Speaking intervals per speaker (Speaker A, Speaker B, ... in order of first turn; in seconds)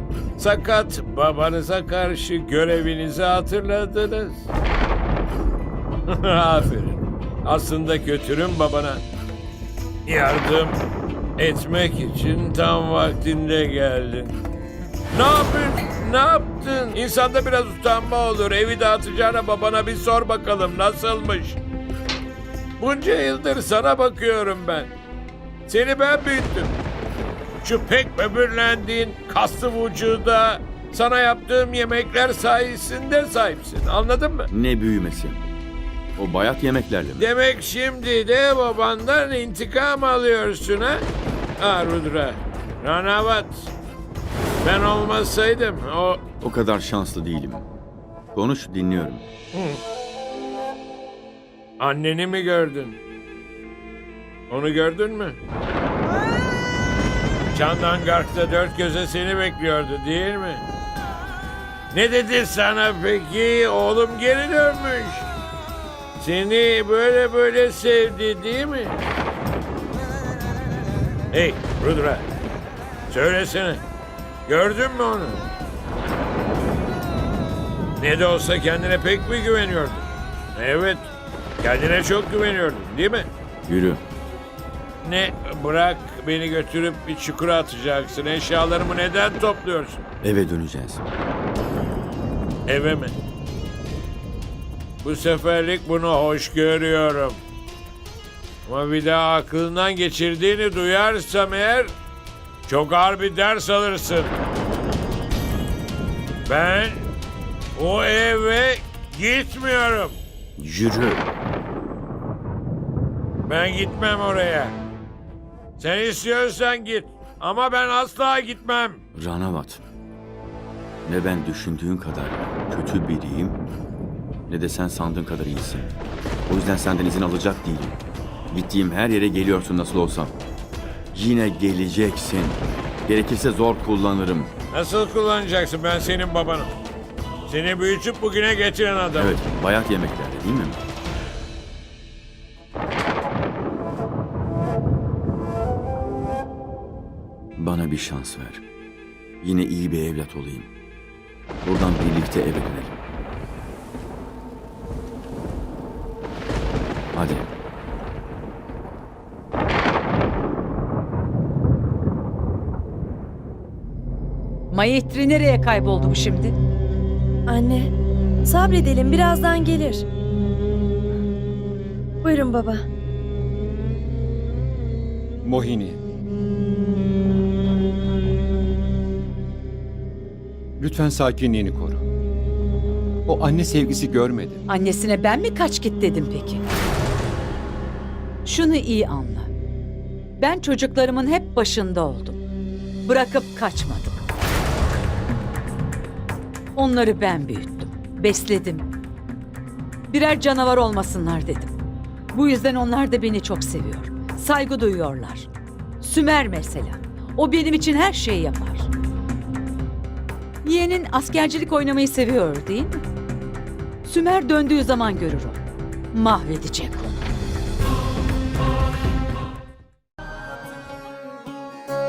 Speaker A: 0.4-4.5, 6.1-9.0, 10.1-10.8, 11.4-14.3, 15.1-21.6, 22.8-24.9, 25.7-26.7, 27.6-34.5, 37.2-43.7, 44.6-46.2, 49.5-49.8, 51.8-53.0, 54.5-55.4, 57.5-60.6, 61.9-65.3, 66.2-69.0, 71.3-72.2, 73.1-73.8, 74.5-75.4, 78.0-81.1, 81.6-83.3, 85.0-90.0, 92.7-93.2, 95.0-97.4, 98.6-101.9, 102.7-104.3, 106.5-107.1, 107.7-110.2, 113.5-114.8, 115.8-119.0, 134.7-136.7, 137.5-139.4
Speaker B: 34.5-35.4, 36.2-37.3, 46.4-47.7, 48.3-49.3, 83.7-84.0, 90.2-91.0, 110.6-111.3, 119.1-119.8, 121.0-123.6, 124.5-125.9, 126.5-128.0, 128.5-130.3, 131.1-134.5, 139.2-140.8, 147.6-148.6, 149.4-150.7, 151.6-152.9, 157.1-157.5
Speaker C: 164.7-166.5, 184.7-186.6, 188.4-189.5, 190.4-192.4, 193.0-194.2, 196.8-198.9, 200.1-201.7, 202.3-205.5, 206.0-208.9, 210.6-213.0, 214.0-217.3
Speaker D: 167.5-167.9, 168.4-170.1, 172.2-172.8
Speaker E: 175.4-176.0, 180.8-182.0, 183.2-184.6